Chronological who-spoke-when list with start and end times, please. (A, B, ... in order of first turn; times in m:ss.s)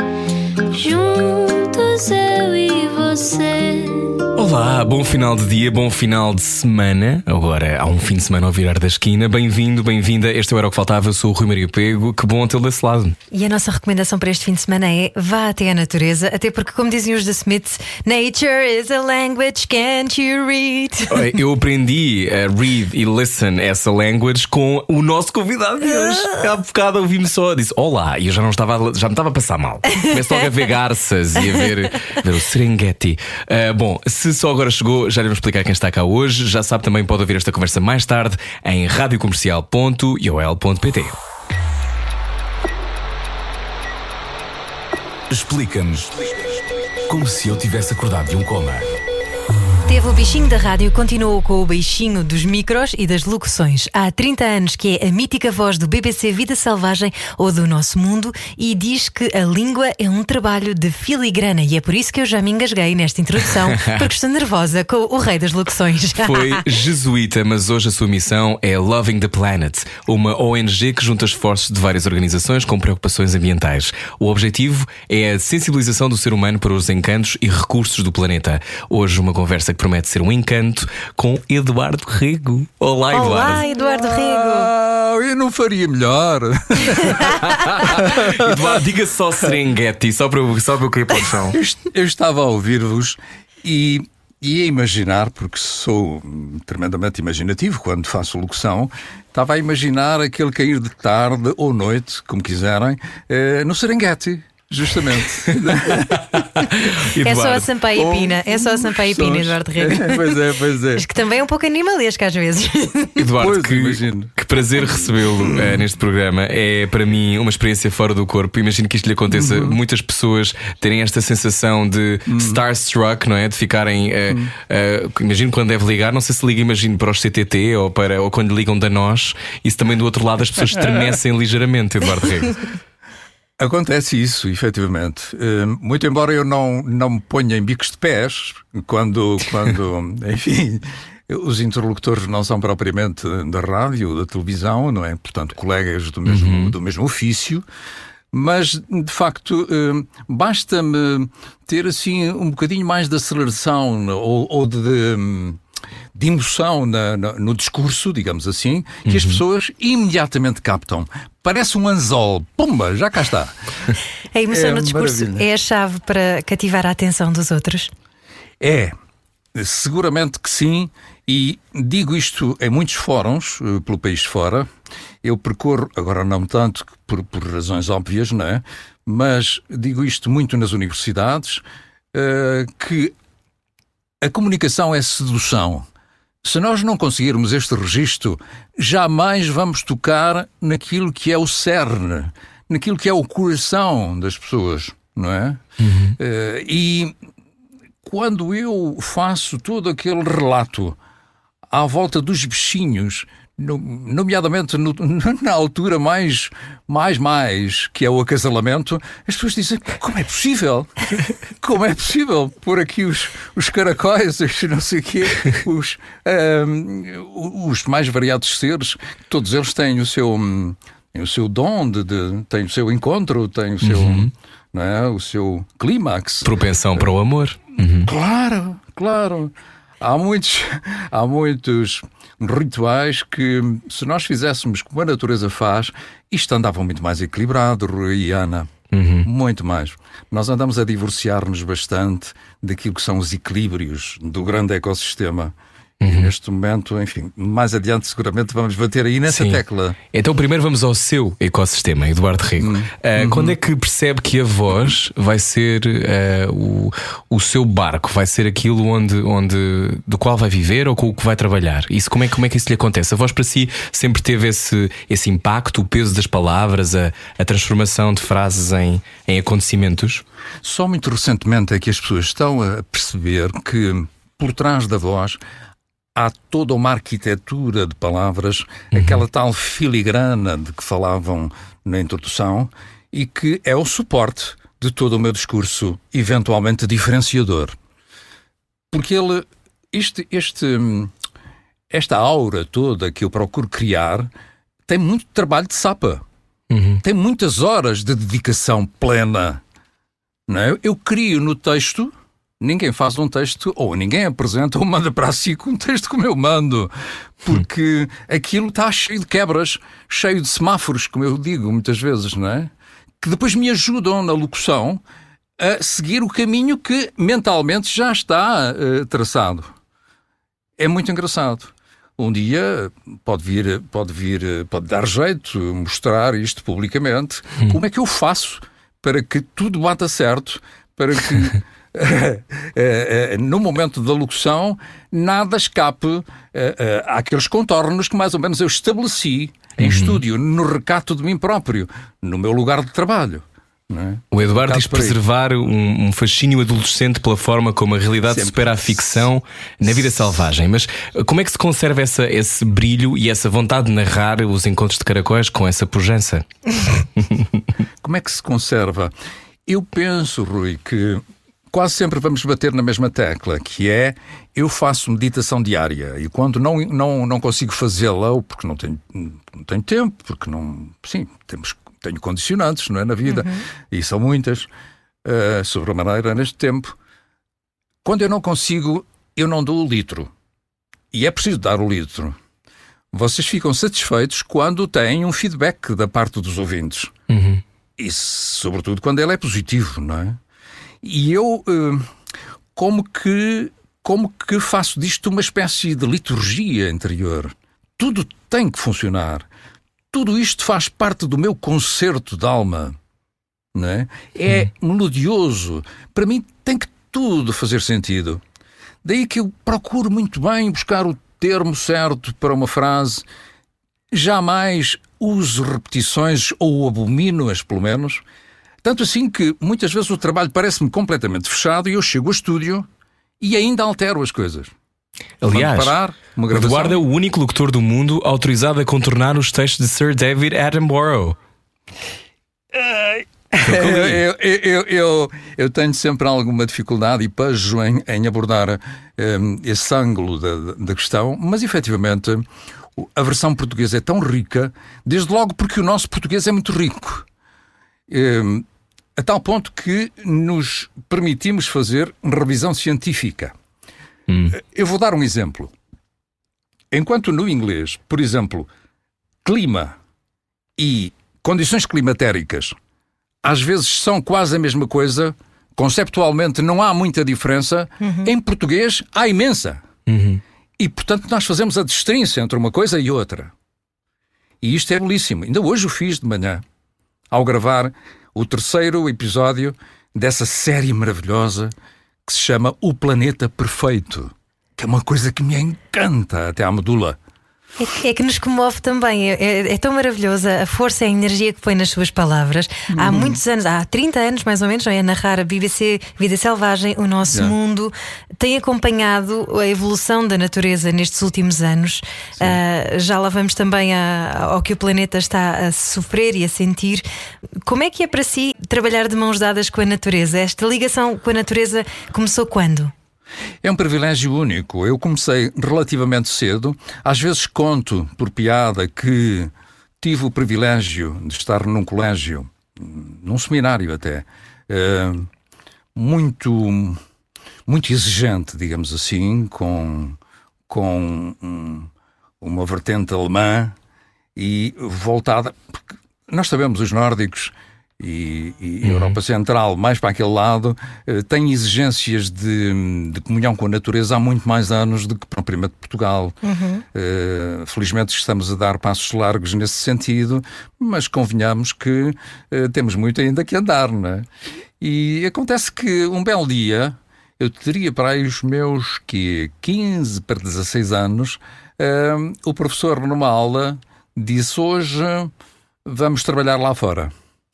0:00.7-0:04.3 A
0:04.4-0:13.2 B
0:13.3-0:21.2 C
0:21.1-0:41.2 B
0:45.3-0:46.2 D
0:47.1-0:49.0 D
0:49.9-1:06.6 C
1:03.8-1:04.0 B
1:06.2-1:23.6 B
1:23.1-1:24.7 C
1:23.7-1:28.8 E
1:27.5-1:31.6 B
1:31.5-1:46.5 E
1:46.3-1:48.0 B
1:47.2-1:50.3 C
1:48.0-1:51.0 E
1:51.0-1:53.2 C
1:53.2-2:12.7 B
1:53.4-1:54.3 E
1:55.4-1:55.8 E
1:59.3-1:59.8 E
2:02.3-2:02.6 E
2:10.7-2:11.2 E
2:13.6-2:27.6 E
2:26.3-2:26.7 B
2:28.3-2:35.6 E
2:36.1-2:43.6 E
2:39.1-2:39.4 B
2:44.3-2:47.9 C
2:44.5-2:45.4 E
2:48.6-2:49.0 E
2:49.5-2:54.7 E
2:55.2-3:03.2 E
3:04.2-3:05.9 E
3:06.4-3:15.6 E
3:15.8-3:16.2 B
3:16.2-3:17.2 E
3:18.0-3:21.0 E
3:21.7-3:46.5 E
3:43.8-3:44.3 B
3:46.4-3:48.1 B
3:48.0-3:58.7 E
3:58.9-3:59.3 B
3:59.2-4:10.0 E
4:06.0-4:06.3 B
4:09.3-4:30.2 B
4:12.6-4:13.6 E
4:30.6-4:35.4 E
4:36.2-4:47.8 E
4:38.9-4:39.2 B
4:48.9-4:51.1 E
4:51.9-4:54.3 E
4:54.9-4:56.2 E
4:56.7-4:57.0 B
4:57.0-4:59.6 E
5:00.5-5:15.0 E
5:15.6-5:19.7 E
5:20.8-5:45.2 E
5:39.8-5:40.2 B
5:44.3-5:57.5 B
5:48.3-5:49.2 E
5:58.0-5:59.1 E
5:59.7-6:14.7 E
6:13.3-6:13.6 C
6:15.2-6:17.0 E
6:18.0-6:20.3 E
6:21.1-6:22.4 E
6:23.1-6:27.1 E
6:27.3-6:27.6 B
6:28.0-6:30.4 E
6:31.0-6:32.1 E
6:32.8-6:39.5 E
6:40.1-6:43.0 E
6:43.7-6:48.4 E
6:49.0-6:53.2 E
6:54.1-6:58.2 E
6:58.8-7:02.9 E
7:03.4-7:04.7 E
7:05.4-7:06.0 B
7:05.5-7:07.0 E
7:06.5-7:11.4 B
7:12.7-7:27.3 E
7:13.6-7:14.2 B
7:28.1-7:33.5 E
7:34.3-7:34.6 B
7:34.5-7:35.7 E
7:36.9-7:38.7 E
7:39.4-7:40.0 E
7:40.8-7:42.8 E
7:43.4-7:49.8 E
7:48.0-7:48.3 C
7:50.1-7:50.4 B
7:50.8-7:53.5 E
7:54.6-7:56.6 E
7:57.3-8:01.7 E
8:02.3-8:07.2 E
8:07.8-8:27.0 C
8:12.9-8:13.4 E
8:17.3-8:17.6 E
8:27.6-8:32.9 C
8:33.6-8:45.3 E
8:46.0-8:47.0 E
8:47.7-8:50.2 E
8:50.7-8:51.9 E
8:52.4-8:53.8 E
8:54.4-9:06.4 E
8:58.8-8:59.2 B
9:06.4-9:06.8 C
9:06.9-9:14.3 E
9:14.8-9:25.3 E
9:25.8-9:27.1 E